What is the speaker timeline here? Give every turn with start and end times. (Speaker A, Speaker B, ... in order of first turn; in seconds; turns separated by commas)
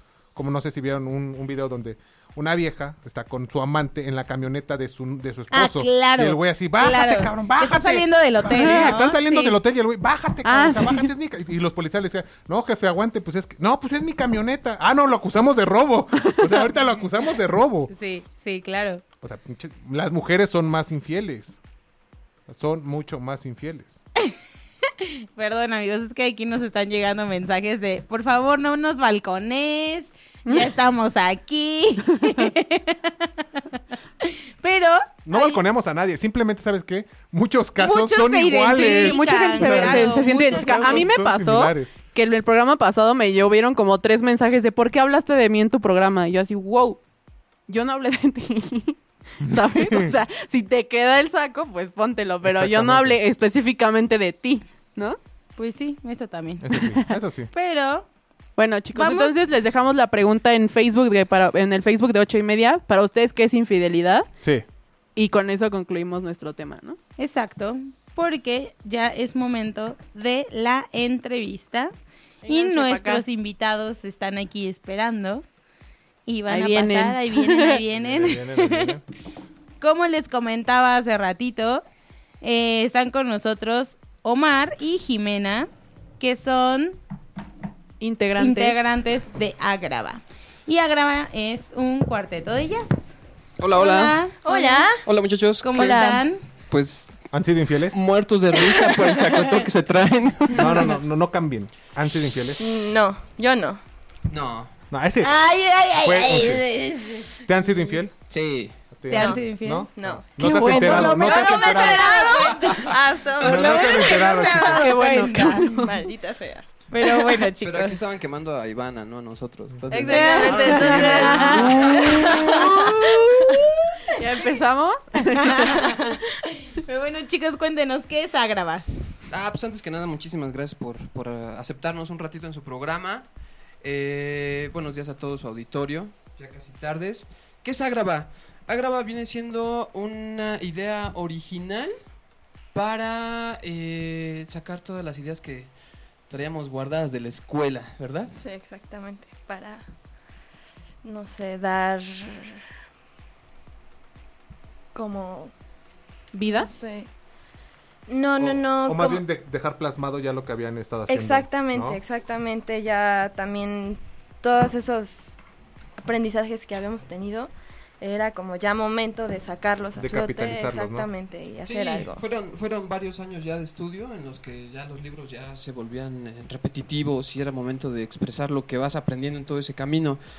Speaker A: 0.3-17.9, Speaker B: 5.5-9.5, Speaker C: 8.5-9.0, Speaker C: 10.4-11.1, Speaker C: 16.3-16.5, Speaker B: 17.9-19.0, Speaker A: 19.2-21.6, Speaker A: 22.5-24.0, Speaker B: 24.9-33.6, Speaker C: 30.4-30.7, Speaker B: 34.2-35.6, Speaker A: 35.2-41.9, Speaker B: 37.8-41.1, Speaker C: 38.7-47.0, Speaker C: 47.7-55.2, Speaker A: 49.4-50.1, Speaker A: 52.4-53.2, Speaker B: 55.6-56.8, Speaker A: 56.6-57.5, Speaker B: 57.5-58.1, Speaker C: 58.6-64.2, Speaker B: 58.9-59.3, Speaker C: 65.2-67.0, Speaker B: 67.2-71.9, Speaker C: 72.4-73.2, Speaker B: 72.5-75.4, Speaker B: 76.2-79.0, Speaker C: 76.5-77.8, Speaker A: 77.9-79.0, Speaker B: 79.8-81.8, Speaker B: 82.4-87.0, Speaker C: 88.0-88.8, Speaker B: 88.4-93.1, Speaker D: 93.6-94.2, Speaker B: 93.8-94.9, Speaker E: 94.4-95.0, Speaker D: 95.0-96.0, Speaker B: 95.6-96.4, Speaker C: 95.7-96.2, Speaker D: 96.7-97.1, Speaker A: 97.3-98.0, Speaker D: 97.9-100.9, Speaker B: 98.9-99.4, Speaker A: 100.5-102.6, Speaker E: 102.6-103.8, Speaker D: 104.3-104.7, Speaker A: 104.9-105.4, Speaker B: 105.2-107.3, Speaker A: 106.0-106.7, Speaker A: 107.4-108.1, Speaker D: 108.3-108.8, Speaker A: 108.9-112.2, Speaker B: 109.1-109.9, Speaker E: 109.1-109.4, Speaker E: 110.0-114.2, Speaker C: 110.4-111.4, Speaker B: 110.7-115.8, Speaker A: 113.4-115.0, Speaker C: 114.6-115.9, Speaker E: 115.7-116.7, Speaker B: 116.9-118.0, Speaker D: 117.6-122.4, Speaker E: 119.9-123.1, Speaker B: 120.0-124.4, Speaker A: 120.8-122.0, Speaker C: 124.1-126.1, Speaker B: 125.3-128.8, Speaker D: 129.3-133.3, Speaker D: 133.8-141.9, Speaker D: 142.7-145.7, Speaker D: 146.3-148.3, Speaker E: 148.3-149.8, Speaker E: 151.0-152.6, Speaker E: 154.9-155.5, Speaker C: 156.3-156.7, Speaker E: 156.5-157.1, Speaker E: 158.1-159.2, Speaker A: 158.4-162.0, Speaker E: 161.1-165.4, Speaker E: 166.0-172.2, Speaker A: 170.0-171.1, Speaker D: 171.6-180.2